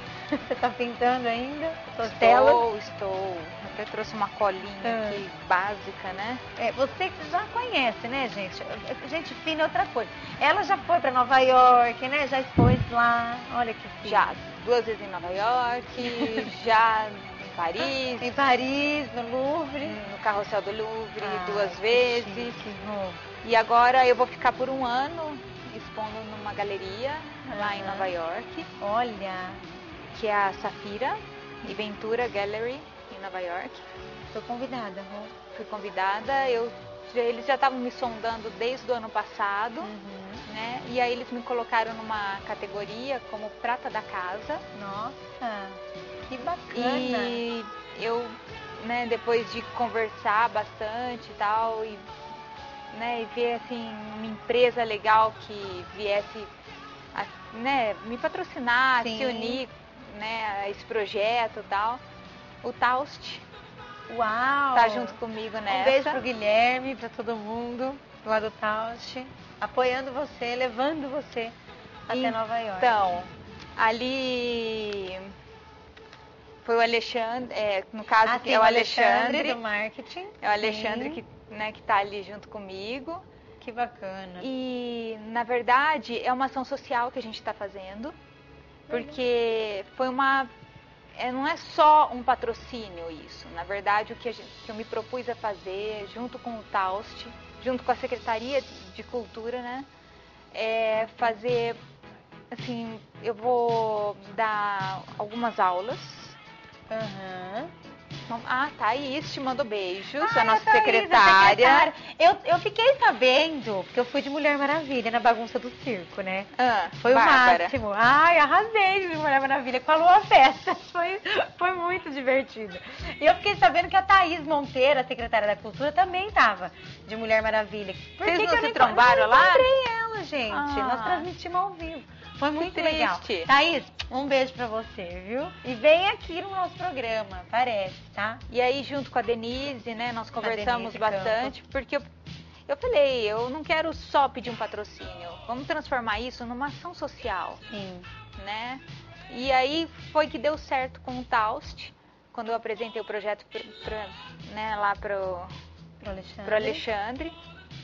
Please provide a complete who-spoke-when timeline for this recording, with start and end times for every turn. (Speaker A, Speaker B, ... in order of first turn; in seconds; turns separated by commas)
Speaker A: 0.3-2.6, Speaker B: 2.0-6.4, Speaker A: 4.8-5.2, Speaker A: 6.5-14.3, Speaker B: 14.0-18.4, Speaker A: 16.0-16.5, Speaker A: 17.8-20.0, Speaker B: 19.8-22.7, Speaker A: 21.2-23.2, Speaker B: 23.4-28.7, Speaker A: 27.5-28.1, Speaker A: 28.8-29.6, Speaker B: 30.1-33.8, Speaker A: 34.3-35.3, Speaker B: 35.5-39.9, Speaker A: 39.8-40.5, Speaker B: 40.5-44.6, Speaker A: 44.7-47.4, Speaker B: 46.7-52.1, Speaker B: 52.9-56.5, Speaker B: 57.1-62.0, Speaker A: 59.0-59.6, Speaker B: 62.6-63.4, Speaker A: 64.1-71.5, Speaker B: 64.7-66.2, Speaker A: 72.1-73.3, Speaker B: 72.1-75.3, Speaker B: 76.6-79.6, Speaker A: 78.2-81.2, Speaker B: 80.4-83.2, Speaker A: 83.6-84.5, Speaker B: 84.4-88.1, Speaker B: 88.9-90.5, Speaker B: 91.2-99.9, Speaker B: 100.5-101.8, Speaker B: 102.5-106.4, Speaker A: 106.9-107.7, Speaker B: 108.3-111.9, Speaker A: 110.2-138.4, Speaker B: 116.5-117.7, Speaker B: 128.2-129.7, Speaker B: 130.5-131.3, Speaker B: 132.6-133.5, Speaker B: 138.5-142.1, Speaker A: 140.4-141.6, Speaker B: 142.7-147.6, Speaker A: 147.7-148.1, Speaker B: 148.3-155.5, Speaker A: 156.0-156.8, Speaker B: 156.4-157.3